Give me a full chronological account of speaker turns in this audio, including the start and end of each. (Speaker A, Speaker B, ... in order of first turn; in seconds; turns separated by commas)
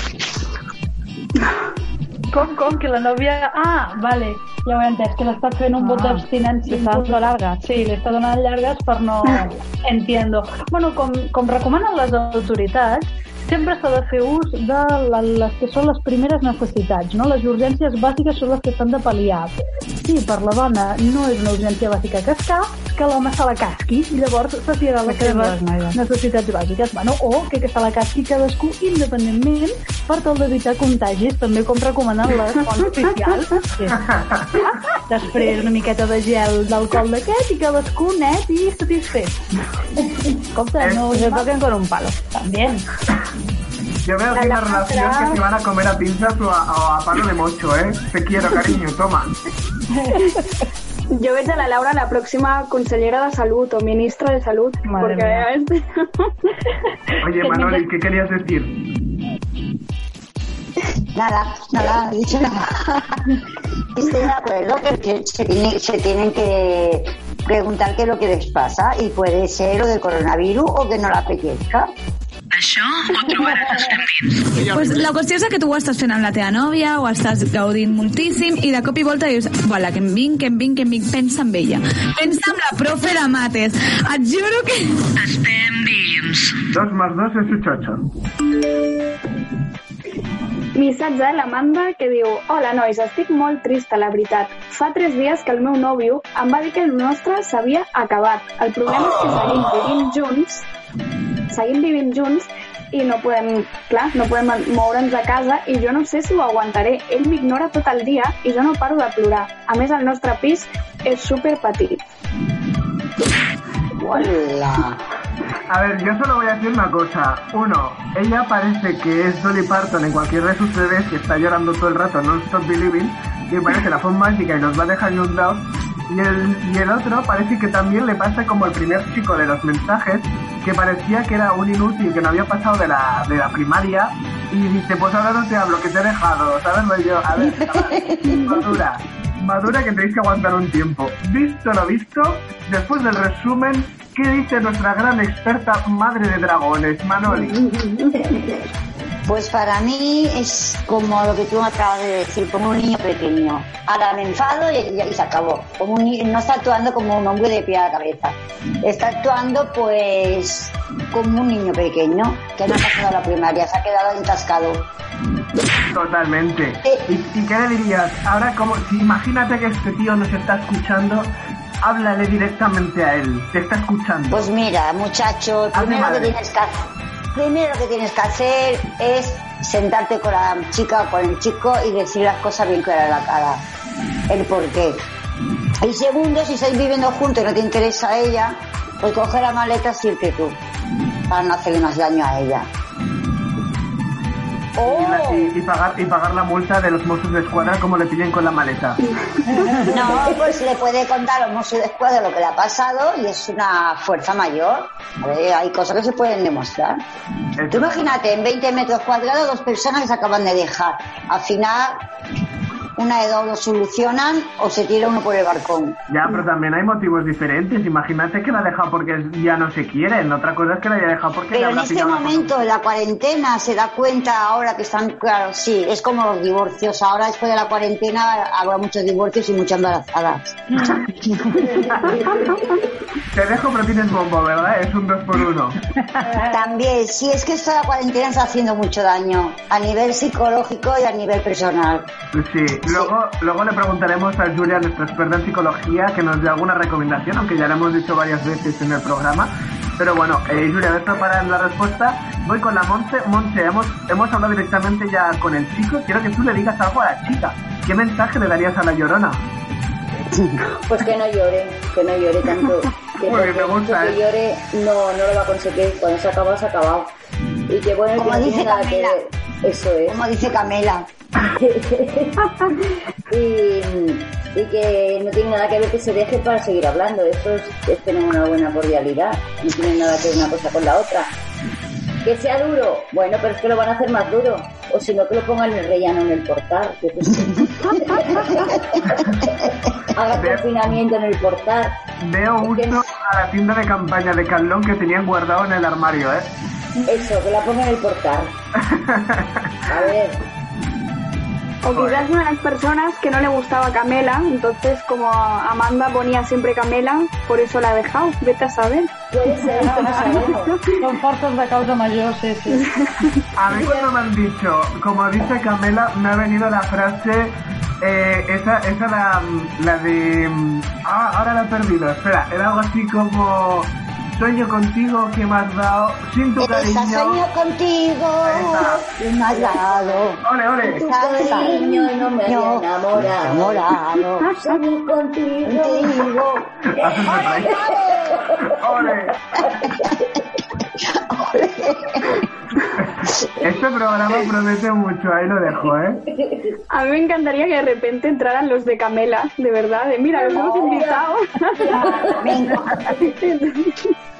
Speaker A: 2.3-19.5, Speaker B: 5.8-7.6, Speaker A: 20.1-34.0, Speaker B: 25.1-26.0, Speaker C: 34.1-34.5, Speaker A: 35.1-39.4, Speaker A: 40.6-41.5, Speaker B: 40.6-42.4, Speaker A: 42.4-42.8, Speaker C: 44.0-49.4, Speaker D: 44.3-45.4, Speaker D: 51.1-56.3, Speaker B: 54.8-55.4, Speaker C: 57.2-58.8, Speaker A: 57.4-57.8, Speaker E: 61.1-63.2, Speaker E: 63.9-71.9, Speaker F: 72.5-74.7, Speaker G: 74.7-84.9, Speaker F: 85.1-86.6, Speaker C: 86.7-88.0, Speaker D: 90.7-100.6, Speaker D: 101.5-112.0, Speaker E: 114.0-115.0, Speaker C: 115.7-147.6, Speaker E: 137.6-138.5, Speaker H: 148.2-148.5, Speaker E: 149.2-164.8, Speaker C: 165.9-171.3, Speaker C: 171.8-174.5, Speaker E: 174.3-183.6, Speaker C: 175.7-176.3, Speaker E: 184.3-185.0, Speaker E: 185.8-190.6, Speaker E: 191.3-192.7, Speaker E: 194.8-195.5, Speaker C: 194.8-199.0, Speaker E: 199.9-207.0, Speaker H: 199.9-200.5, Speaker C: 207.6-208.1, Speaker E: 207.7-212.0, Speaker E: 213.0-216.0, Speaker C: 216.1-222.5, Speaker E: 221.5-231.9, Speaker H: 232.1-232.9, Speaker C: 233.3-235.8, Speaker E: 236.5-242.1, Speaker C: 242.3-259.4, Speaker E: 260.3-260.6, Speaker H: 260.8-267.1, Speaker C: 263.2-264.2, Speaker H: 267.7-270.2, Speaker E: 268.2-269.2, Speaker E: 270.1-271.1, Speaker H: 271.4-272.8, Speaker H: 273.3-281.3, Speaker H: 282.2-288.8, Speaker H: 290.1-291.9, Speaker C: 290.3-290.6, Speaker C: 292.2-296.5, Speaker H: 292.6-293.0, Speaker H: 297.0-298.5, Speaker C: 298.8-299.6, Speaker H: 299.9-300.4, Speaker D: 301.8-309.1, Speaker C: 301.9-302.3, Speaker H: 309.3-310.7, Speaker A: 309.6-312.9, Speaker C: 313.6-327.4, Speaker H: 313.7-314.1, Speaker E: 326.6-330.4, Speaker C: 328.4-329.0, Speaker H: 329.1-333.9, Speaker C: 330.4-331.6, Speaker E: 330.9-334.5, Speaker H: 334.5-336.3, Speaker E: 335.7-336.7, Speaker C: 336.9-337.8, Speaker E: 337.5-338.0, Speaker H: 337.7-340.0, Speaker C: 338.7-339.3, Speaker E: 341.0-342.4, Speaker C: 343.6-346.2, Speaker H: 346.2-346.8, Speaker D: 346.9-352.0, Speaker H: 350.5-351.2, Speaker H: 351.8-352.5, Speaker E: 352.4-353.1, Speaker D: 353.3-354.0